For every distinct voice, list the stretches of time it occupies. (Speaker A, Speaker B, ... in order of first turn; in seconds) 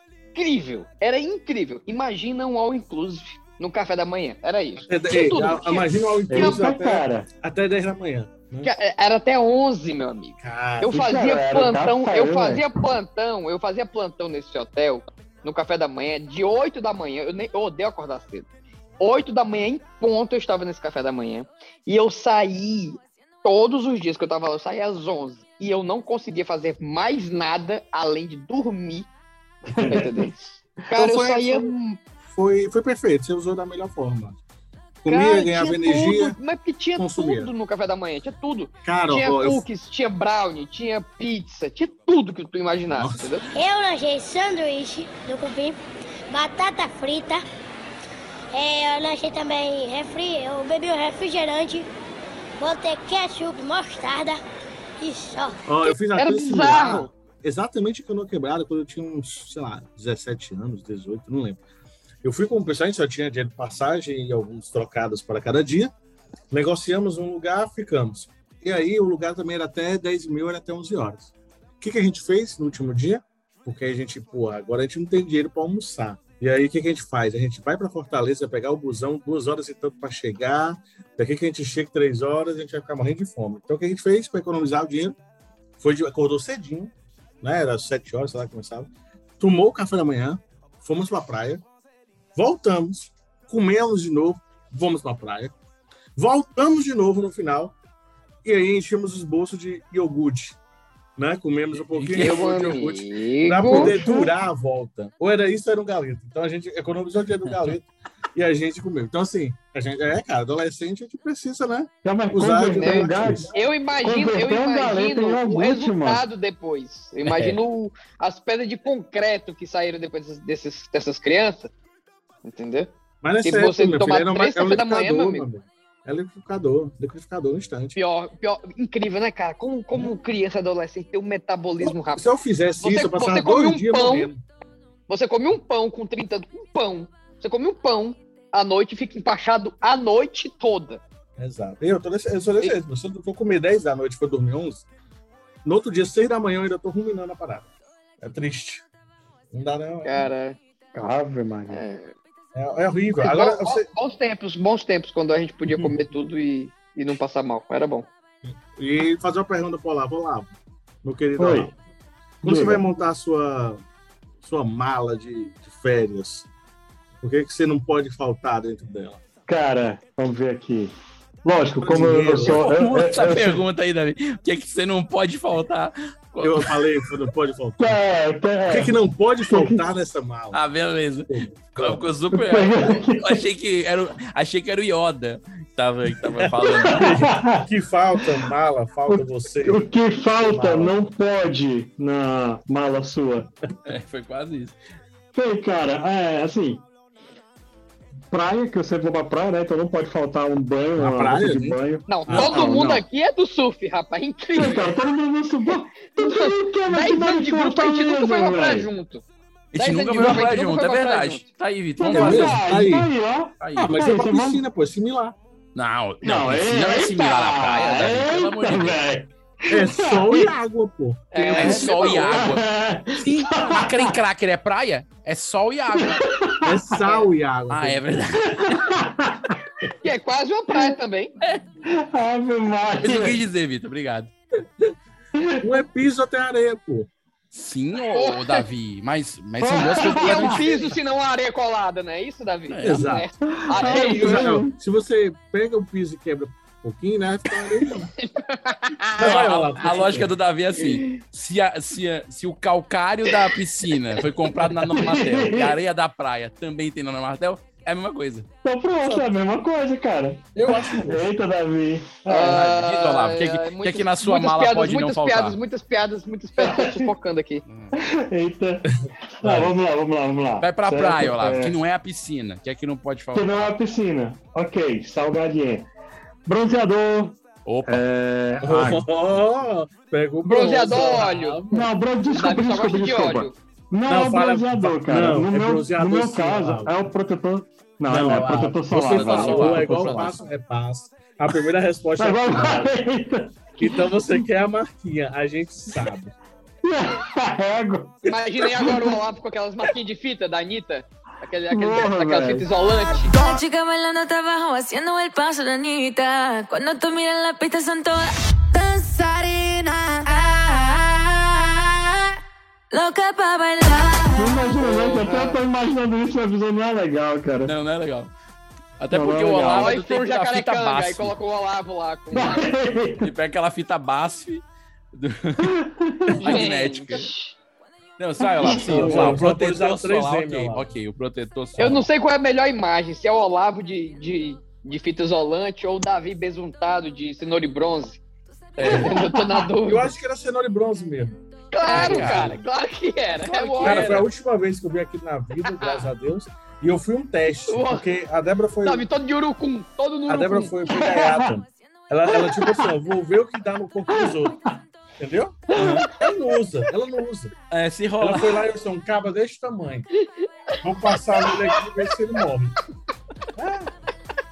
Speaker A: 0.3-6.5, 8.6-18.5, 19.0-29.1, 29.9-32.0, 35.1-43.4, 56.2-57.1, 102.2-104.0, 112.7-121.7, 122.5-125.5, 128.0-132.2, 132.8-134.3, 135.1-141.0, 150.1-150.6, 151.7-152.1, 153.2-158.1, 202.1-204.9, 206.1-209.2, 209.8-211.4, 221.3-222.4, 227.0-227.3, 230.0-231.3, 238.1-238.7, 240.1-244.5, 248.2-249.5, 262.3-267.6, 280.4-281.6, 282.3-283.6, 298.3-303.4, 314.8-315.6, 319.7-322.7, 326.4-327.6, 331.8-338.2, 338.8-340.1, 341.7-344.2, 345.8-346.1, 347.7-348.1, 348.8-350.7, 360.2-361.8
Speaker B: 4.9-8.7, 10.4-11.0, 31.0-34.4, 35.0-36.4, 37.0-37.5, 38.9-39.6, 42.9-43.3, 55.7-61.6, 62.2-65.9, 66.5-85.2, 85.8-91.6, 92.4-95.5, 96.2-97.7, 98.4-100.6, 101.2-113.5, 123.2-128.0, 131.8-134.4, 141.4-144.9, 145.7-147.7, 148.2-148.8, 149.5-150.3, 152.6-153.8, 158.5-160.5, 161.0-161.7, 162.4-163.8, 164.4-166.5, 167.2-169.2, 171.8-172.9, 176.4-178.0, 178.7-180.6, 181.3-182.0, 186.3-189.9, 190.4-191.0, 201.0-203.0, 212.1-213.1, 213.8-215.4, 219.7-222.2, 226.6-228.0, 235.6-237.1, 242.8-243.3, 243.8-248.1, 249.2-250.3, 259.0-259.3, 260.6-261.2, 269.4-269.7, 278.6-281.9, 284.1-286.9, 288.1-292.9, 293.8-296.4, 328.6-330.9, 338.8-339.1, 339.8-342.6, 343.8-349.0, 350.3-354.6, 355.2-357.5, 358.2-360.1, 360.8-362.8, 363.6-363.9
Speaker C: 6.3-7.3, 10.9-12.6, 29.7-30.3, 103.6-104.3, 112.0-116.2, 150.9-151.8, 161.4-161.7, 162.4-162.8, 169.5-173.6, 177.8-178.9, 179.5-179.8, 182.3-183.4, 186.8-187.6, 189.1-193.5, 195.3-196.8, 198.3-203.0, 204.5-208.9, 212.0-214.6, 216.2-220.5, 221.6-224.2, 225.9-226.9, 228.6-229.6, 231.8-233.4, 235.3-235.7, 239.6-240.6, 243.5-244.8, 254.8-255.8, 258.6-262.6, 266.6-267.1, 267.9-268.9, 269.4-271.8, 273.3-275.9, 276.5-279.1, 281.7-290.4, 292.2-294.4, 296.8-299.1, 301.7-302.7, 314.4-317.8, 319.1-319.9, 322.3-323.3, 325.6-326.4, 328.5-329.4, 350.9-351.6, 352.3-352.9, 354.1-354.6
Speaker D: 43.5-45.8, 46.3-47.4, 48.5-51.9, 52.6-54.4, 55.0-55.6
Speaker E: 101.9-102.4, 107.5-107.7, 172.4-176.8, 180.5-187.2, 193.9-194.8, 209.7-212.6, 213.6-213.9, 215.8-219.0, 221.6-226.2, 227.7-228.9, 233.0-234.3, 237.5-240.7, 242.7-243.1, 249.2-258.5, 262.4-265.6, 267.7-267.9, 270.6-273.7, 277.6-278.1, 288.9-290.4, 317.6-318.3, 319.0-321.4, 323.2-325.8, 326.4-327.3, 328.2-332.1, 338.8-339.2, 341.9-342.6, 343.4-344.3, 357.7-358.6
Speaker F: 303.2-312.4, 312.9-314.6